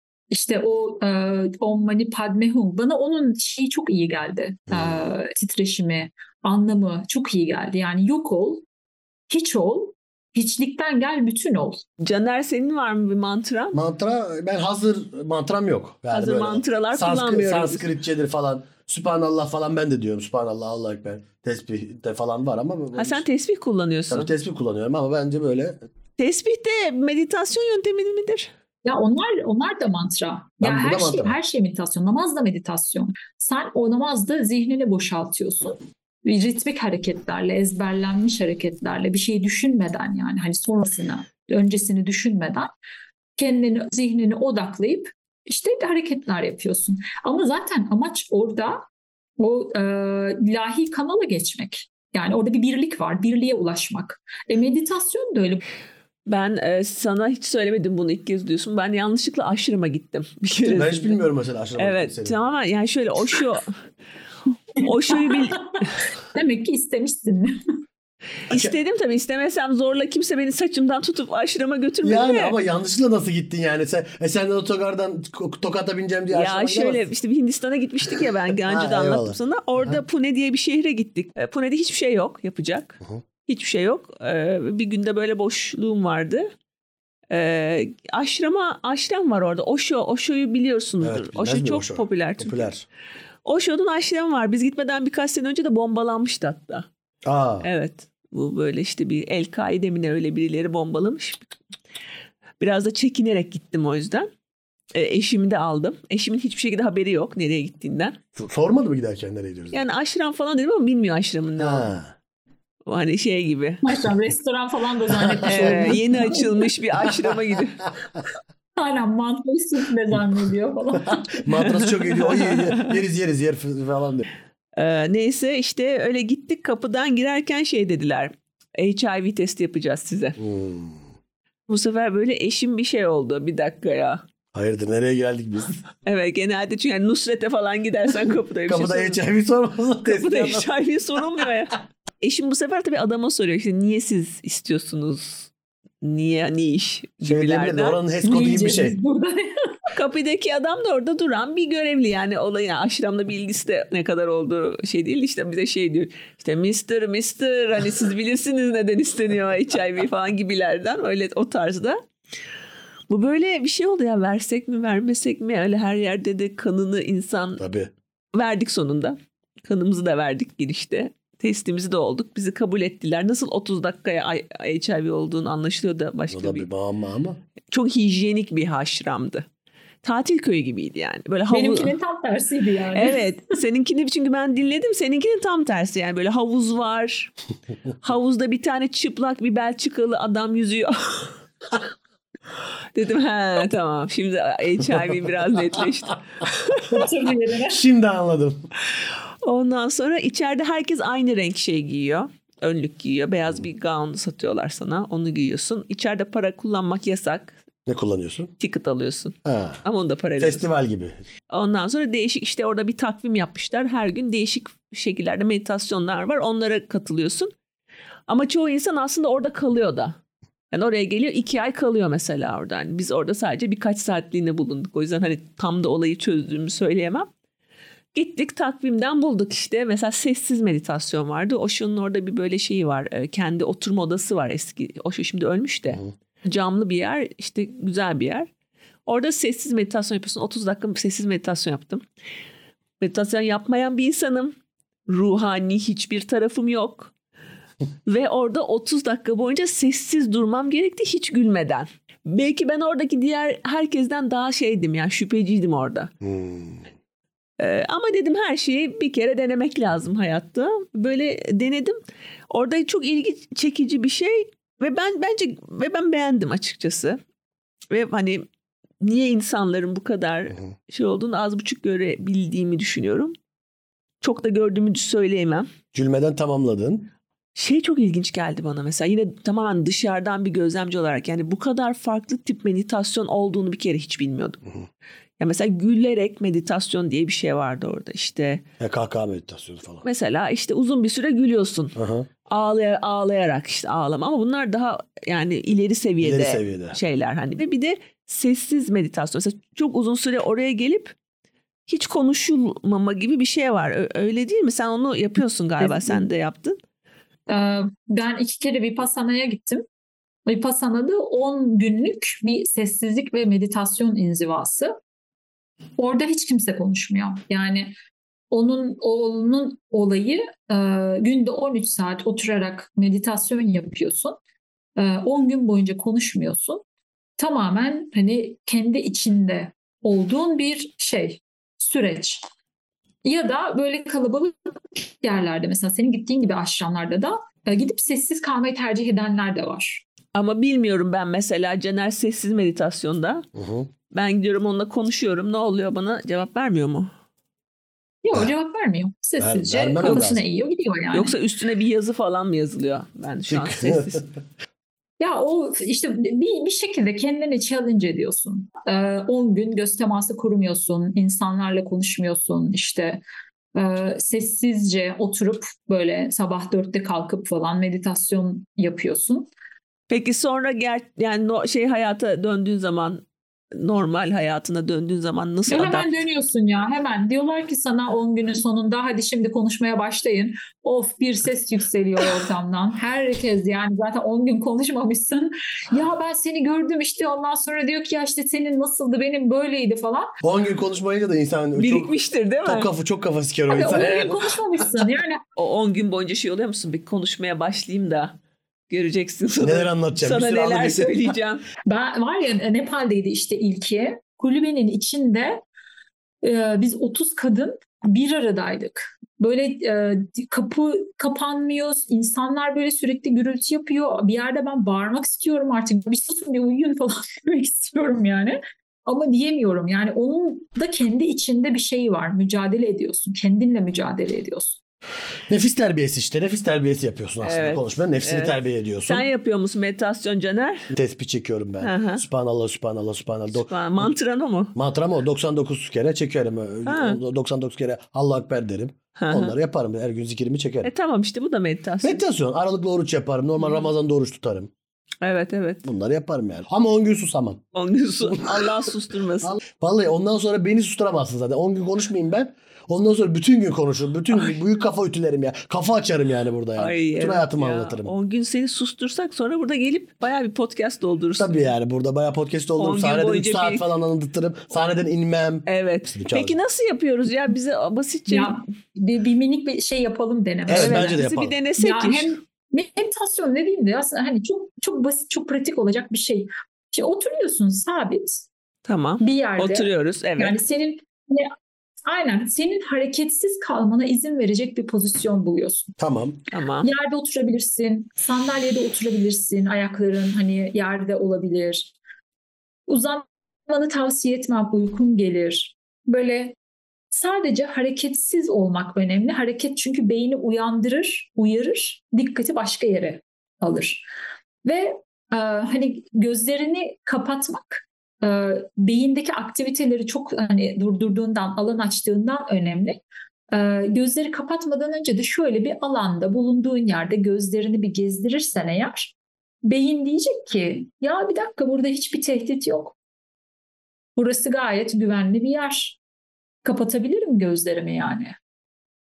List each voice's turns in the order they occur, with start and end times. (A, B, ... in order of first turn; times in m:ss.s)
0:00.3-0:08.6 A
0:04.7-0:05.1 B
0:09.3-0:11.8 A
0:12.0-0:13.8 C
0:13.7-0:23.2 B
0:16.1-0:17.9 C
0:23.0-0:24.3 C
0:24.1-0:25.8 B
0:26.2-0:28.5 C
0:28.8-0:42.7 A
0:30.6-0:31.4 B
0:43.4-0:48.9 A
0:49.4-0:55.6 A
0:56.3-1:01.2 C
1:00.6-1:02.4 B
1:01.8-1:03.8 C
1:04.8-1:05.9 C
1:05.1-1:07.6 A
1:08.5-1:12.6 C
1:12.0-1:17.0 B
1:16.3-1:26.5 C
1:18.6-1:20.0 B
1:27.3-1:32.7 C
1:31.0-1:32.9 B
1:33.4-1:36.9 C
1:37.2-1:37.7 B
1:37.6-1:41.5 C
1:42.6-1:44.3 C
1:44.9-1:48.2 C
1:48.4-1:49.8 B
1:49.7-1:51.9 C
1:51.6-1:52.2 B
1:52.9-1:53.8 C
1:53.8-1:56.7 A
1:55.2-1:56.0 B
1:55.5-1:57.8 C
1:58.8-2:01.6 A
2:01.0-2:04.2 B
2:02.1-2:03.0 C
2:04.8-2:10.4 C
2:10.4-2:11.1 B
2:11.7-2:14.2 C
2:14.5-2:15.8 B
2:16.0-2:19.2 C
2:18.7-2:20.7 B
2:20.0-2:25.5 C
2:26.0-2:28.0 C
2:27.2-2:29.0 B
2:28.2-2:29.8 A
2:29.9-2:42.0 C
2:43.1-2:47.6 C
2:47.6-2:47.9 B
2:48.3-2:56.7 C
2:56.3-2:57.4 B
2:57.7-2:59.5 C
3:00.0-3:02.0 C
3:01.5-3:03.3 A
3:02.9-3:07.3 C
3:08.0-3:11.3 C
3:12.9-3:17.0 C
3:16.9-3:17.8 A
3:17.7-3:18.6 B
3:19.0-3:27.6 C
3:27.9-3:28.5 B
3:28.6-3:30.6 C
3:29.4-3:29.8 B
3:30.4-3:31.2 B
3:31.5-3:37.5 C
3:38.3-3:40.2 C
3:40.7-3:47.3 C
3:48.1-3:58.5 C
3:59.1-4:02.0 C
4:03.0-4:04.6 C
4:05.1-4:07.1 C
4:08.1-4:16.1 C
4:16.2-4:16.9 B
4:17.6-4:22.0 C
4:22.5-4:27.2 C
4:27.9-4:28.5 C
4:29.0-4:33.3 C
4:34.2-4:35.7 C
4:35.9-4:37.1 B
4:37.6-4:44.6 C
4:45.4-4:48.6 C
4:48.8-4:50.1 B
4:50.0-4:52.0 C
4:52.0-4:52.3 B
4:52.5-5:01.2 C
4:56.2-4:57.0 B
5:01.9-5:06.8 C
5:05.8-5:06.2 A
5:07.5-5:09.8 A
5:10.5-5:15.0 A
5:16.0-5:18.0 A
5:18.5-5:24.4 A
5:25.0-5:26.8 A
5:27.4-5:32.4 A
5:33.2-5:40.0 A
5:40.3-5:43.5 C
5:43.6-5:43.9 B
5:44.1-5:47.1 C
5:48.2-5:51.4 A
5:49.4-5:50.4 B
5:50.0-5:50.4 C
5:51.1-5:54.3 C
5:53.5-5:54.3 B
5:55.2-6:03.2 A
6:03.8-6:09.5 A
6:10.1-6:16.1 C
6:15.7-6:30.3 A
6:30.4-6:32.1 B
6:31.8-6:32.9 C
6:32.6-6:34.4 B
6:33.7-6:35.4 A
6:35.6-6:38.4 C
6:38.9-6:41.7 C
6:39.6-6:41.3 B
6:41.9-6:45.6 A
6:46.4-7:04.8 A
7:05.5-7:09.3 B
7:07.4-7:10.9 C
7:11.0-7:14.1 B
7:11.8-7:12.2 C
7:13.6-7:14.7 C
7:14.8-7:20.9 B
7:16.9-7:17.2 C
7:19.2-7:19.6 C
7:20.8-7:22.2 C
7:22.0-7:24.7 B
7:23.6-7:23.9 C
7:25.2-7:25.9 C
7:25.8-7:27.6 B
7:27.7-7:29.6 C
7:28.2-7:28.8 B
7:29.4-7:38.1 B
7:36.8-7:41.7 C
7:41.4-7:46.6 B
7:42.8-7:43.8 C
7:45.7-7:48.6 C
7:48.3-7:51.2 A
7:50.7-7:51.6 B
7:50.7-7:52.4 C
7:51.8-7:58.5 A
7:58.9-8:00.6 C
7:59.2-8:01.5 A
8:02.1-8:06.0 A
8:06.0-8:06.4 B
8:06.5-8:06.9 C
8:06.8-8:11.9 A
8:12.9-8:16.6 A
8:17.1-8:24.1 A
8:24.6-8:33.0 A
8:33.5-8:43.0 A
8:44.2-8:46.0 A
8:46.6-8:48.4 A